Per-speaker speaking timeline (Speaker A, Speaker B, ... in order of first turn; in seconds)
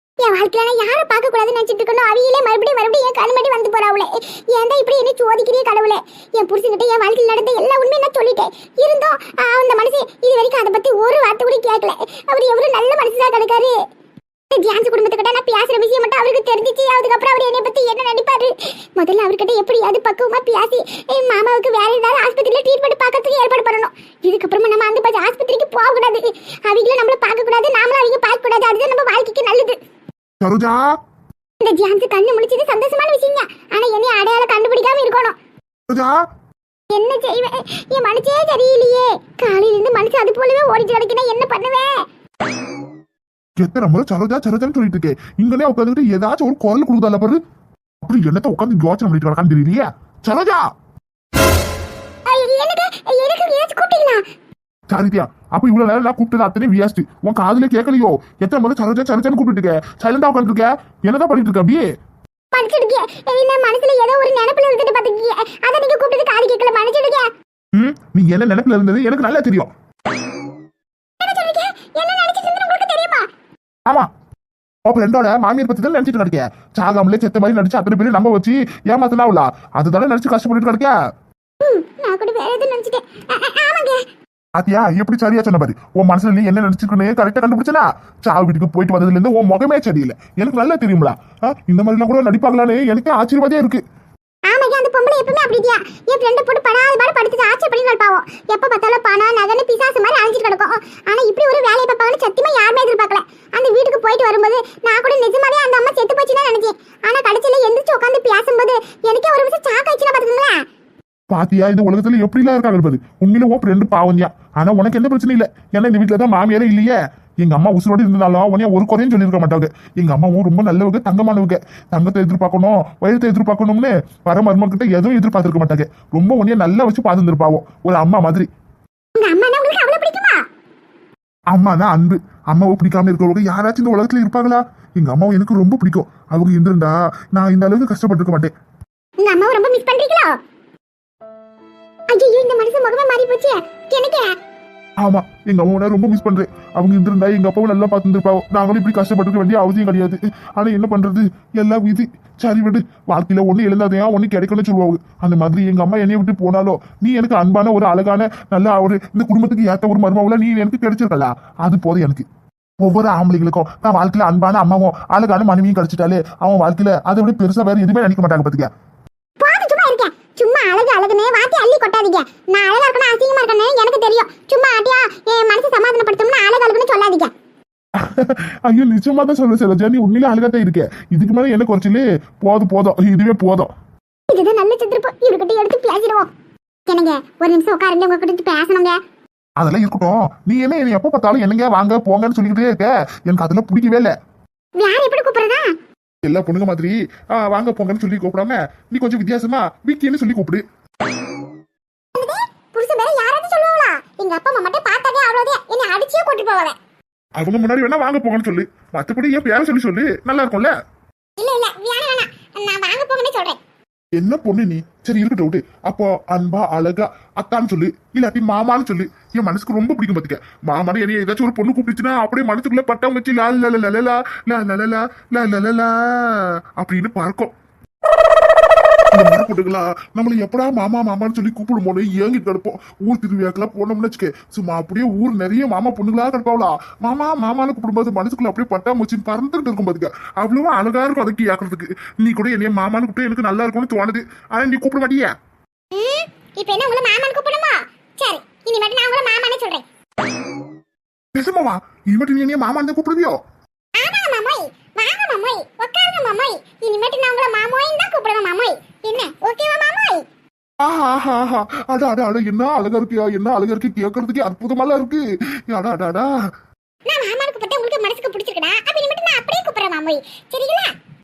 Speaker A: 0.2-13.7, 14.5-29.8, 31.6-35.4, 36.9-41.9, 52.2-54.2, 62.5-67.3, 71.2-73.2, 81.6-84.0, 94.5-110.6, 129.2-130.4, 139.2-140.3, 142.1-144.3, 169.4-177.3, 184.3-186.3, 186.9-189.0, 194.8-195.7, 202.1-206.8, 211.4-213.6, 245.9-249.8, 253.9-260.2, 267.1-270.9
Speaker B: 30.4-30.8, 35.9-36.1, 43.6-47.4, 48.0-50.6, 54.9-61.8, 67.7-69.7, 74.8-80.9, 84.6-93.8, 111.3-128.5, 131.5-138.5, 145.0-162.2, 162.8-168.7, 178.0-183.7, 189.6-194.1, 196.2-200.6, 207.4-210.7, 214.2-227.5, 229.1-245.3, 251.3-253.4, 260.8-266.3